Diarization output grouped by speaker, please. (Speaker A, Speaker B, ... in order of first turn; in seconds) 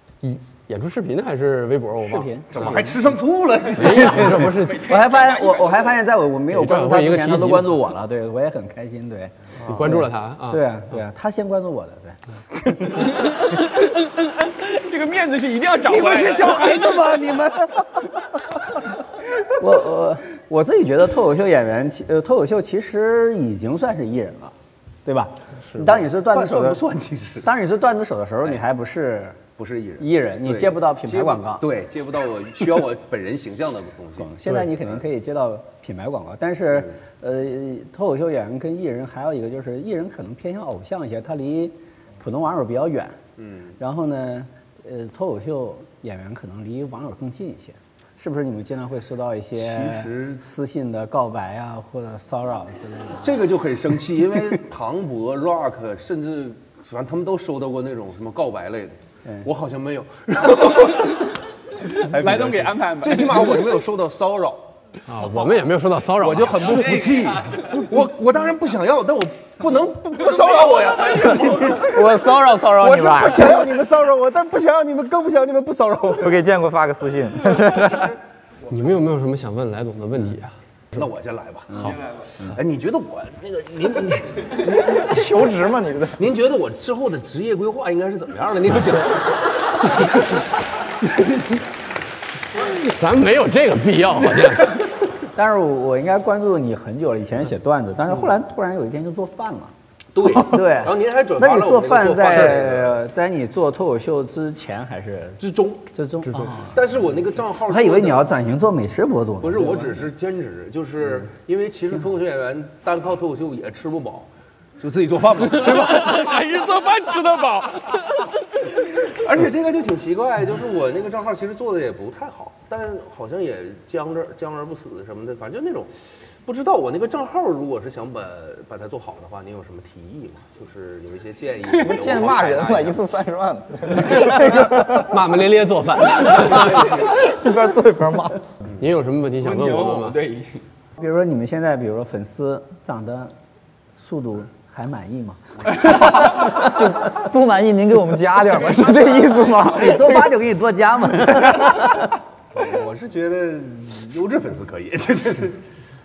Speaker A: 0.2-2.8, 3.7-4.9, 6.5-7.8, 9.7-10.6, 25.7-26.0, 65.1-67.0, 78.7-81.0, 92.5-94.8, 134.2-137.1, 138.8-140.2
Speaker B: 2.0-3.0, 3.9-12.2, 19.4-24.5, 25.0-26.8, 27.4-29.4, 30.0-31.6, 34.2-43.2, 43.8-53.3, 95.3-99.7, 100.3-105.4, 105.9-106.8, 107.6-109.9, 141.0-143.3, 144.0-146.3, 149.6-152.1
Speaker C: 2.5-4.4, 15.9-18.0, 26.2-27.5, 29.6-34.3, 43.4-43.7, 49.5-50.4, 53.2-61.3, 61.9-64.7, 66.2-76.4, 80.9-85.3, 86.2-90.3, 100.1-103.0, 105.4-105.9, 106.7-108.3, 109.4-116.3, 119.0-125.9, 126.4-133.0, 152.5-155.6
Speaker D: 4.4-5.9, 13.1-17.1, 62.1-63.8, 70.7-71.8, 115.5-118.4, 139.4-140.6
Speaker E: 71.6-73.6, 76.2-78.2, 84.8-86.2, 131.7-135.1, 136.3-138.4, 145.8-150.3